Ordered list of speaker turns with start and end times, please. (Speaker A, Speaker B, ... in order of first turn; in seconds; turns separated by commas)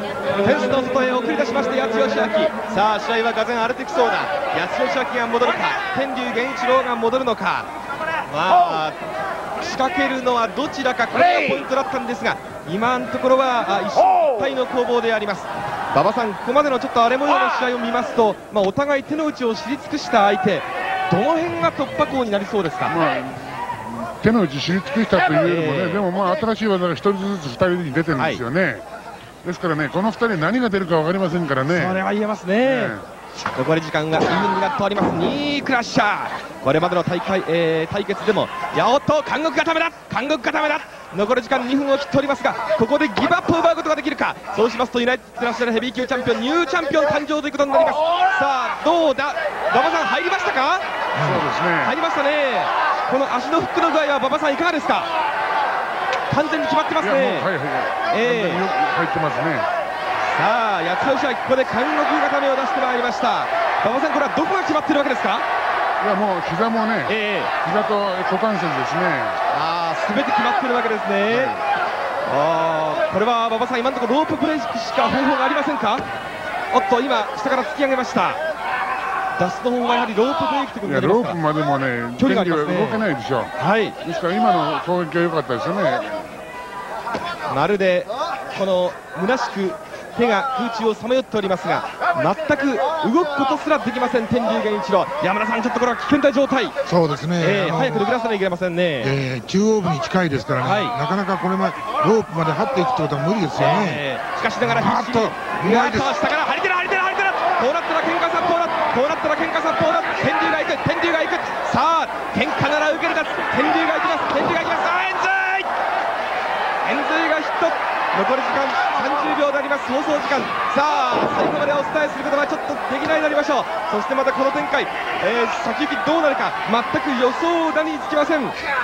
Speaker A: 0.4-7.7, Speaker A: 8.3-9.0, Speaker A: 9.6-23.0, Speaker B: 22.9-28.8, Speaker A: 25.4-26.1, Speaker A: 28.2-28.4, Speaker B: 29.4-32.0, Speaker A: 31.7-33.0, Speaker B: 32.6-33.0, Speaker A: 33.5-50.8, Speaker C: 51.1-51.5, Speaker B: 51.2-52.0, Speaker A: 51.8-55.1, Speaker A: 56.3-57.5, Speaker B: 57.0-59.7, Speaker A: 58.1-58.6, Speaker A: 60.3-65.5, Speaker B: 66.0-69.4, Speaker A: 67.1-67.5, Speaker A: 69.5-71.6, Speaker B: 71.3-71.5, Speaker A: 72.2-76.0, Speaker A: 76.7-78.4, Speaker A: 79.4-81.4, Speaker B: 80.8-86.3, Speaker A: 82.2-83.0, Speaker A: 83.6-84.0, Speaker A: 87.5-96.8, Speaker C: 96.8-98.2, Speaker A: 97.4-99.1, Speaker C: 99.0-104.0, Speaker A: 100.6-101.0, Speaker A: 103.5-115.7, Speaker C: 104.6-106.2, Speaker A: 116.8-128.6